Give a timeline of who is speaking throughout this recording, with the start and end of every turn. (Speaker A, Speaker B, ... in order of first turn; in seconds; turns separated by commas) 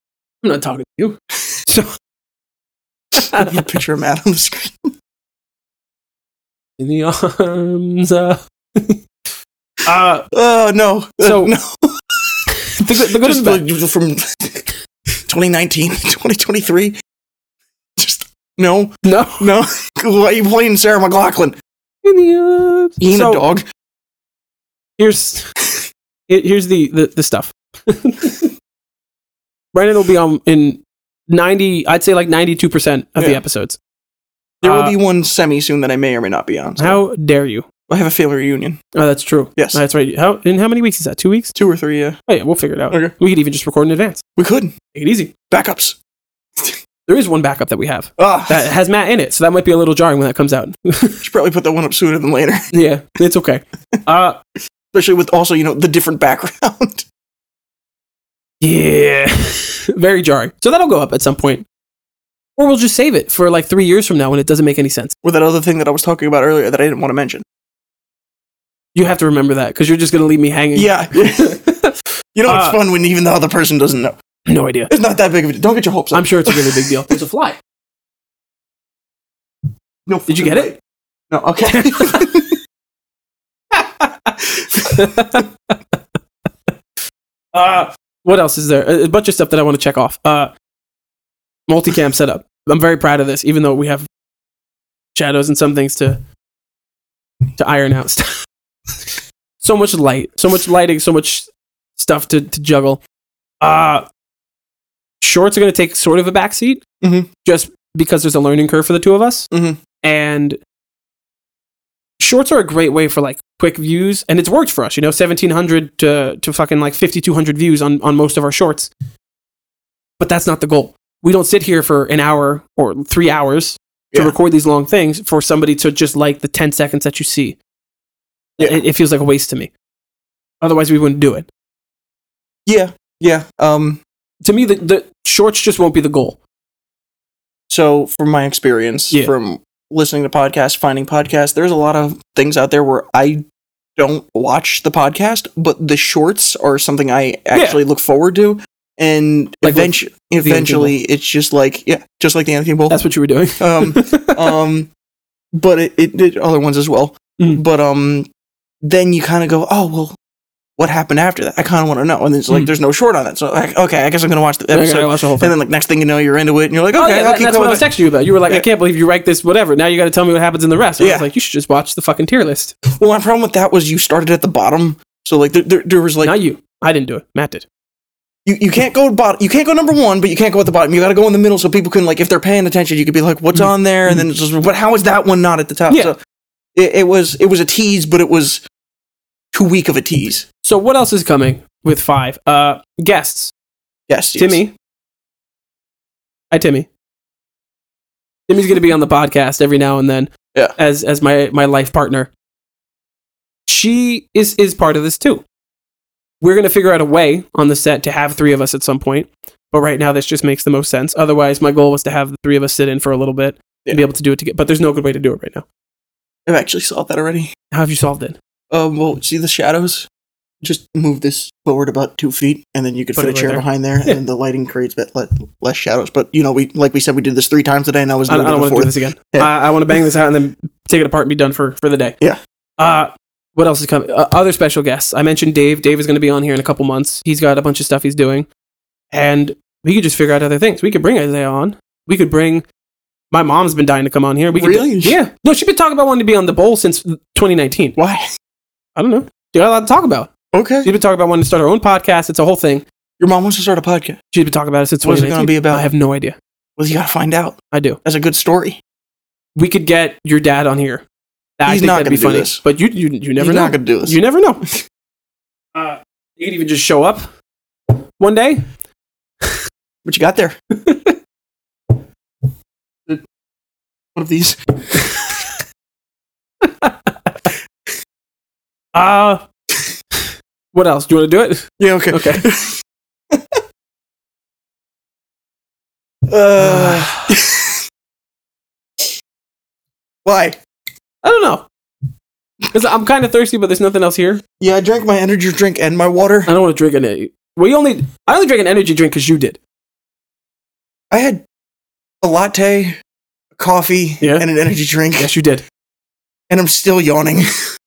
Speaker A: 0.4-1.9, Speaker A: 3.1-3.6, Speaker B: 3.3-4.9, Speaker A: 6.8-9.0, Speaker A: 9.8-10.3, Speaker B: 10.3-12.4, Speaker A: 11.2-11.5, Speaker A: 12.7-13.6, Speaker B: 13.0-14.7, Speaker B: 15.3-16.9, Speaker B: 18.0-21.5, Speaker A: 19.0-19.5, Speaker A: 22.0-23.4, Speaker B: 23.0-23.6, Speaker A: 25.0-25.5, Speaker A: 26.3-28.5, Speaker A: 29.7-33.8, Speaker B: 34.6-37.0, Speaker A: 34.6-35.0, Speaker A: 36.8-37.6, Speaker B: 37.9-38.8, Speaker A: 38.9-41.5, Speaker B: 41.5-42.2, Speaker A: 42.3-44.2, Speaker B: 44.4-44.7, Speaker A: 44.9-45.3, Speaker B: 45.5-46.0, Speaker A: 47.1-51.2, Speaker B: 48.2-48.7, Speaker B: 51.2-52.6, Speaker A: 52.7-54.4, Speaker B: 54.9-57.0, Speaker A: 58.6-61.6, Speaker A: 62.6-65.1, Speaker B: 65.2-67.4, Speaker A: 68.9-72.8, Speaker B: 70.7-71.6, Speaker B: 72.3-74.1, Speaker A: 74.5-74.9, Speaker B: 74.9-76.9, Speaker A: 76.1-77.6, Speaker B: 80.1-80.8, Speaker A: 80.3-80.7, Speaker B: 81.3-82.6, Speaker A: 81.7-82.4, Speaker A: 83.8-85.8, Speaker B: 84.4-85.4, Speaker A: 87.5-90.5, Speaker A: 91.7-94.1, Speaker A: 95.1-96.2, Speaker A: 97.6-98.3, Speaker A: 99.6-103.0, Speaker A: 103.6-104.0, Speaker A: 105.2-106.8, Speaker B: 107.0-107.3, Speaker A: 107.4-109.5, Speaker B: 109.5-109.8, Speaker A: 110.0-110.6, Speaker A: 112.2-118.9, Speaker A: 120.2-127.6, Speaker A: 128.6-129.7, Speaker A: 130.6-131.5, Speaker B: 132.7-134.0, Speaker A: 134.4-136.4, Speaker B: 137.7-143.4, Speaker B: 144.0-153.0, Speaker A: 147.5-147.8, Speaker A: 149.6-150.9, Speaker A: 152.9-154.5, Speaker B: 153.6-154.9, Speaker B: 155.5-158.3, Speaker B: 158.8-160.2, Speaker B: 160.8-167.9, Speaker A: 164.7-165.5, Speaker A: 166.9-172.7, Speaker B: 171.0-171.3, Speaker B: 172.9-176.3, Speaker A: 176.2-177.7, Speaker B: 178.4-186.1, Speaker A: 183.6-184.2, Speaker B: 186.8-188.6, Speaker B: 189.5-190.4, Speaker A: 190.6-193.5, Speaker B: 194.1-194.6, Speaker A: 194.4-194.7, Speaker A: 196.5-196.9, Speaker A: 198.5-202.3, Speaker A: 203.7-205.4, Speaker A: 206.4-215.6, Speaker B: 216.5-217.5, Speaker A: 217.7-218.3, Speaker B: 218.7-220.1, Speaker B: 220.6-229.5, Speaker A: 223.2-224.2, Speaker A: 228.3-232.2, Speaker A: 232.8-238.5, Speaker A: 239.1-242.6, Speaker A: 243.3-248.0, Speaker B: 244.5-245.2, Speaker B: 248.0-248.2, Speaker A: 248.9-250.3, Speaker B: 250.5-250.9, Speaker A: 250.8-252.8, Speaker B: 253.2-254.2, Speaker A: 254.3-256.4, Speaker B: 255.0-255.9, Speaker B: 256.8-258.8, Speaker A: 257.7-258.0, Speaker A: 259.6-261.0, Speaker A: 261.6-264.6, Speaker B: 261.7-262.6, Speaker B: 263.4-264.2, Speaker A: 265.7-267.3, Speaker A: 268.2-268.6, Speaker B: 270.0-270.6, Speaker A: 270.7-271.1, Speaker B: 274.1-275.0, Speaker A: 274.9-275.5, Speaker A: 276.6-277.5, Speaker A: 278.9-279.4, Speaker A: 280.7-282.4, Speaker B: 281.8-282.8, Speaker B: 283.3-283.6, Speaker B: 286.3-287.8, Speaker A: 286.6-287.3, Speaker B: 290.2-290.6, Speaker A: 291.2-291.7, Speaker A: 292.7-294.4, Speaker B: 294.6-296.5, Speaker A: 296.5-299.6, Speaker B: 301.1-301.4, Speaker B: 302.2-303.0, Speaker B: 303.6-305.3, Speaker A: 305.2-305.6, Speaker B: 306.5-307.5